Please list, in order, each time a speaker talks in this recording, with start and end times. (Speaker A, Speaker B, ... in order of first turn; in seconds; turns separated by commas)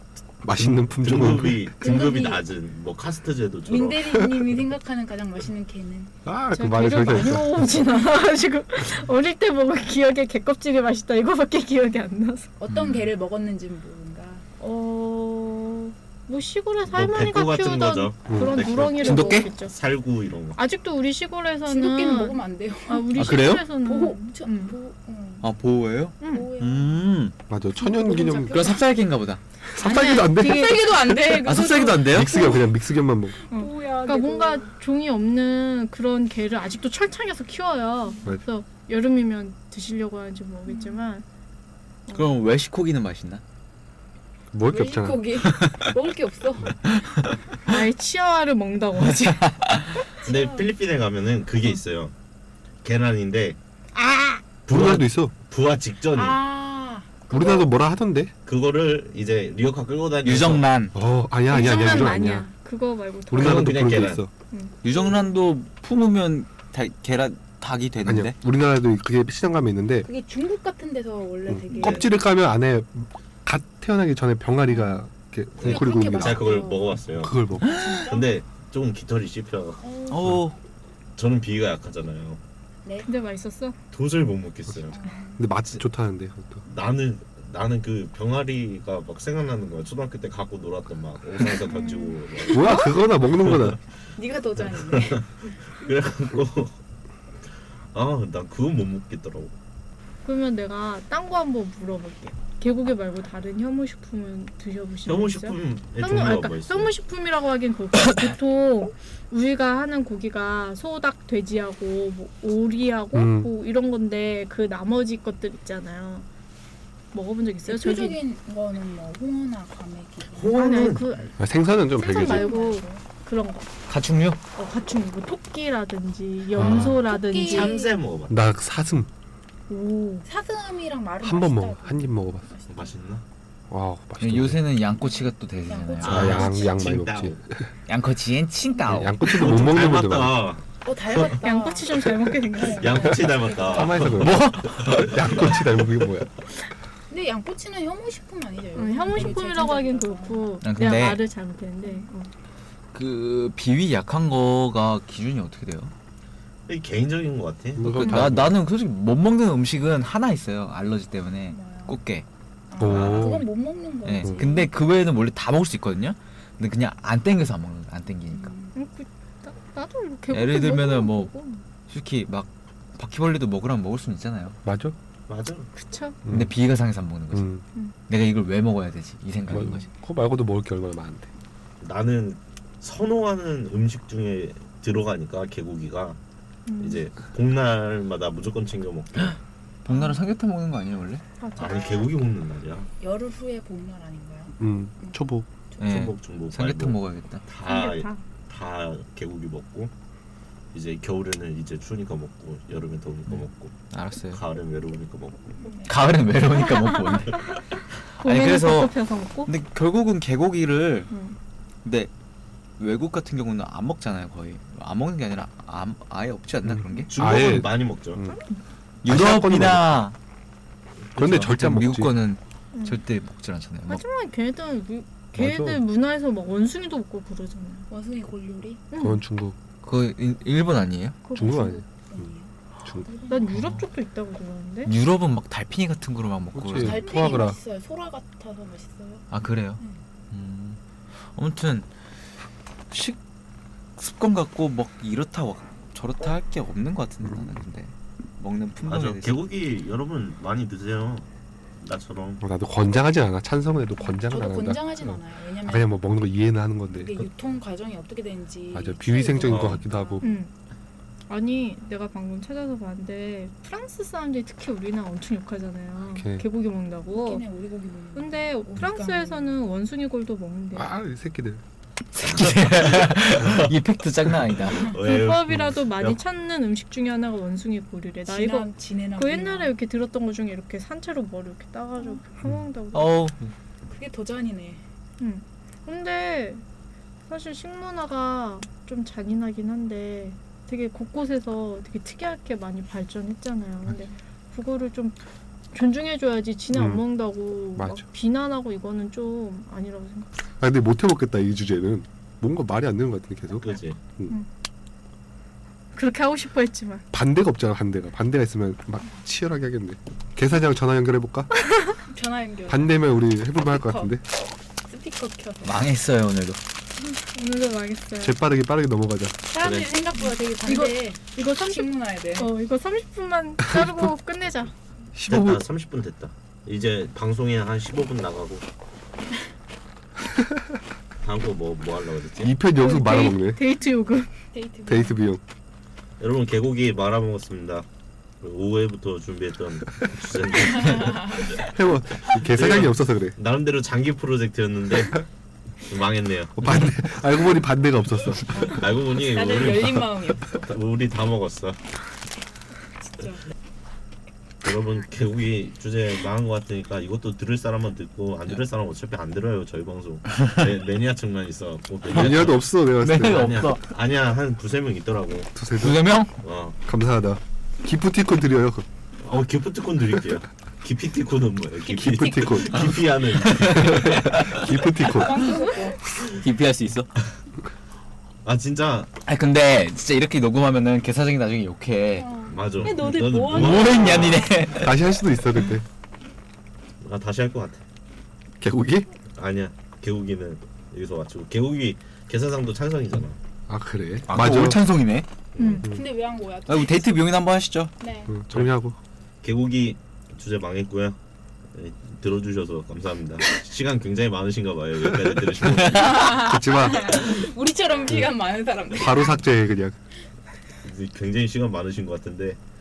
Speaker A: 0.4-1.7, Speaker B: 0.6-4.1, Speaker C: 1.8-2.4, Speaker C: 3.6-6.1, Speaker A: 4.1-4.5, Speaker A: 6.2-7.7, Speaker D: 6.5-12.5, Speaker C: 12.6-14.4, Speaker E: 12.7-13.1, Speaker D: 14.6-19.8, Speaker B: 16.9-20.6, Speaker A: 18.3-18.6, Speaker E: 19.0-19.5, Speaker D: 20.5-24.8, Speaker C: 21.6-25.5, Speaker E: 23.1-23.6, Speaker E: 25.4-27.3, Speaker D: 26.2-26.5, Speaker C: 26.2-27.0, Speaker A: 27.5-28.6, Speaker C: 27.7-28.9, Speaker E: 28.5-29.4, Speaker A: 29.7-31.1, Speaker D: 29.8-30.8, Speaker C: 29.8-32.7, Speaker E: 31.2-32.5, Speaker A: 32.0-33.4, Speaker C: 33.4-34.7, Speaker D: 33.5-41.2, Speaker C: 40.7-41.0, Speaker E: 42.1-43.4, Speaker A: 44.5-45.2, Speaker C: 44.7-46.8, Speaker E: 45.4-45.8, Speaker E: 47.0-47.3, Speaker D: 47.6-49.5, Speaker E: 49.4-50.0, Speaker C: 50.2-50.7, Speaker B: 50.2-52.1, Speaker B: 52.8-53.6, Speaker D: 53.9-54.4, Speaker B: 54.6-56.4, Speaker A: 54.7-55.3, Speaker C: 56.1-57.7, Speaker A: 57.3-58.3, Speaker B: 58.5-60.7, Speaker E: 60.2-60.9, Speaker A: 60.9-62.5, Speaker D: 61.5-63.8, Speaker A: 63.3-64.3, Speaker B: 63.3-64.2, Speaker E: 64.8-68.3, Speaker C: 64.9-65.2, Speaker A: 68.0-70.1, Speaker C: 70.0-72.2, Speaker A: 71.5-76.6, Speaker B: 71.8-72.0, Speaker B: 75.6-77.3, Speaker C: 75.6-77.0, Speaker A: 77.2-77.8, Speaker E: 77.6-78.0, Speaker C: 77.6-78.3, Speaker B: 78.0-79.8, Speaker C: 79.8-80.4, Speaker E: 80.1-80.6, Speaker B: 81.2-82.4, Speaker D: 83.0-83.8, Speaker B: 83.9-85.0, Speaker C: 84.9-85.5, Speaker A: 85.4-86.6, Speaker B: 86.6-93.8, Speaker C: 91.6-92.8, Speaker D: 91.8-92.1, Speaker A: 92.5-93.8, Speaker C: 94.2-95.2, Speaker B: 94.7-96.8, Speaker B: 97.9-99.5, Speaker D: 100.2-116.3, Speaker B: 105.0-106.9, Speaker A: 113.1-113.5, Speaker D: 117.1-118.2, Speaker C: 117.7-120.8, Speaker B: 120.3-121.3, Speaker D: 120.5-121.4, Speaker A: 121.4-122.5, Speaker C: 121.9-123.0, Speaker D: 121.9-123.7, Speaker E: 123.9-124.4, Speaker D: 124.5-127.8, Speaker A: 126.6-126.9, Speaker C: 126.6-128.0, Speaker B: 127.4-128.4, Speaker A: 128.3-129.1, Speaker D: 129.7-130.2, Speaker C: 130.2-132.9, Speaker A: 131.2-132.5, Speaker B: 132.7-133.2, Speaker A: 133.7-134.6, Speaker E: 134.2-136.4, Speaker C: 135.0-136.8, Speaker B: 136.0-137.4, Speaker A: 136.0-137.5, Speaker E: 137.9-139.4, Speaker A: 138.8-140.3, Speaker B: 139.2-141.3, Speaker C: 140.8-144.2, Speaker D: 141.4-143.2, Speaker B: 142.6-145.8, Speaker A: 143.7-146.3, Speaker E: 144.2-145.2, Speaker C: 147.1-150.6, Speaker D: 148.7-152.3, Speaker E: 150.6-151.2, Speaker E: 152.9-155.9, Speaker B: 156.7-158.3, Speaker A: 157.8-158.6, Speaker E: 157.9-162.2, Speaker C: 161.5-162.0, Speaker C: 162.7-164.7, Speaker A: 162.8-163.5, Speaker B: 162.8-163.3, Speaker E: 164.0-168.5, Speaker C: 168.3-168.7, Speaker D: 168.7-171.6, Speaker E: 170.3-171.3, Speaker E: 171.9-174.6, Speaker A: 174.6-174.9, Speaker B: 175.3-175.7, Speaker D: 175.7-176.2, Speaker A: 176.2-176.5, Speaker E: 176.3-177.5, Speaker A: 177.3-177.6, Speaker E: 178.1-179.9, Speaker A: 179.5-181.3, Speaker B: 181.8-186.2, Speaker D: 186.7-187.0, Speaker B: 186.8-189.4, Speaker E: 189.8-191.2, Speaker D: 191.4-192.1, Speaker B: 191.6-192.9, Speaker C: 191.6-192.0, Speaker C: 193.0-195.2, Speaker A: 194.6-195.5, Speaker C: 195.7-196.0, Speaker E: 195.8-197.4, Speaker B: 195.8-199.9, Speaker D: 197.6-198.2, Speaker B: 200.7-203.7, Speaker E: 203.9-204.4, Speaker B: 204.3-205.6, Speaker C: 205.6-205.9, Speaker E: 205.8-207.6, Speaker D: 206.5-209.5, Speaker E: 208.2-211.1, Speaker D: 211.1-211.3, Speaker E: 211.8-212.1, Speaker E: 212.8-217.4, Speaker A: 216.6-218.4, Speaker B: 217.1-218.2, Speaker E: 219.0-220.1, Speaker A: 219.0-219.9, Speaker A: 221.2-222.1, Speaker E: 221.2-224.0, Speaker D: 222.7-223.0, Speaker D: 223.9-227.9, Speaker A: 225.3-225.8, Speaker C: 227.9-228.8, Speaker D: 228.9-229.2, Speaker A: 229.0-229.6, Speaker E: 229.8-231.2, Speaker D: 231.2-231.8, Speaker A: 231.3-232.3, Speaker C: 232.1-233.5, Speaker D: 233.3-234.9, Speaker E: 233.5-233.8, Speaker E: 234.8-237.1, Speaker A: 236.5-237.6, Speaker C: 236.8-239.2, Speaker E: 239.3-241.9, Speaker E: 242.9-243.2, Speaker E: 244.0-249.4, Speaker B: 248.8-251.3, Speaker B: 251.8-252.4, Speaker A: 252.4-257.2, Speaker C: 254.0-255.9, Speaker C: 256.9-260.3, Speaker A: 258.7-260.4, Speaker B: 259.4-259.8, Speaker D: 260.2-260.5, Speaker D: 261.3-267.4, Speaker A: 266.1-266.4, Speaker C: 267.1-269.6, Speaker D: 268.1-270.9, Speaker A: 270.7-271.6, Speaker E: 272.1-274.9, Speaker B: 272.2-273.7, Speaker B: 274.8-276.2, Speaker D: 275.0-283.2, Speaker C: 278.3-279.7, Speaker E: 282.9-283.4, Speaker C: 283.9-284.8, Speaker D: 285.2-286.6, Speaker D: 287.3-295.1, Speaker D: 295.7-300.3, Speaker A: 296.7-297.0, Speaker A: 297.8-298.0, Speaker A: 300.6-304.3, Speaker B: 303.6-304.0, Speaker D: 305.9-307.1, Speaker A: 307.1-311.5, Speaker D: 311.6-312.0, Speaker C: 312.1-313.1, Speaker A: 312.7-314.2, Speaker C: 313.6-314.1, Speaker C: 314.8-315.9, Speaker E: 315.6-316.6, Speaker D: 317.2-318.4, Speaker A: 318.2-319.4, Speaker C: 319.5-322.5, Speaker B: 319.6-319.9, Speaker D: 320.6-324.7, Speaker A: 323.7-323.9, Speaker A: 325.1-325.6, Speaker B: 325.3-328.6, Speaker B: 331.2-332.5, Speaker A: 332.4-333.6, Speaker D: 332.8-334.3, Speaker C: 334.5-335.2, Speaker A: 334.9-335.4, Speaker B: 336.2-337.9, Speaker B: 338.4-341.7, Speaker C: 340.6-341.6, Speaker A: 341.6-343.4, Speaker B: 342.2-345.2, Speaker B: 345.9-346.6, Speaker A: 346.6-348.6, Speaker C: 348.5-350.7, Speaker B: 348.6-351.8, Speaker C: 353.0-353.4, Speaker B: 354.6-362.6, Speaker A: 362.1-363.6, Speaker E: 362.1-363.9, Speaker B: 363.3-365.5, Speaker A: 365.5-366.1, Speaker E: 365.7-366.3, Speaker B: 366.4-366.8, Speaker A: 366.8-368.9, Speaker B: 369.2-374.6, Speaker C: 371.9-372.9, Speaker A: 371.9-372.8, Speaker E: 373.4-377.1, Speaker A: 373.7-375.5, Speaker C: 375.0-376.0, Speaker B: 378.4-379.1, Speaker E: 379.2-385.6, Speaker C: 382.2-384.8, Speaker B: 382.5-384.5, Speaker A: 384.8-385.8, Speaker B: 387.0-387.8, Speaker A: 388.6-389.1, Speaker B: 389.3-393.4, Speaker A: 393.7-394.8, Speaker E: 394.3-395.3, Speaker B: 395.5-395.9, Speaker D: 395.6-395.8, Speaker C: 395.8-397.3, Speaker E: 396.7-397.9, Speaker C: 398.0-398.3, Speaker A: 398.3-399.0, Speaker B: 399.4-401.2, Speaker B: 401.7-406.2, Speaker E: 405.6-406.4, Speaker C: 405.8-409.4, Speaker A: 406.3-407.5, Speaker A: 408.1-408.4, Speaker A: 408.9-409.9, Speaker B: 410.8-412.6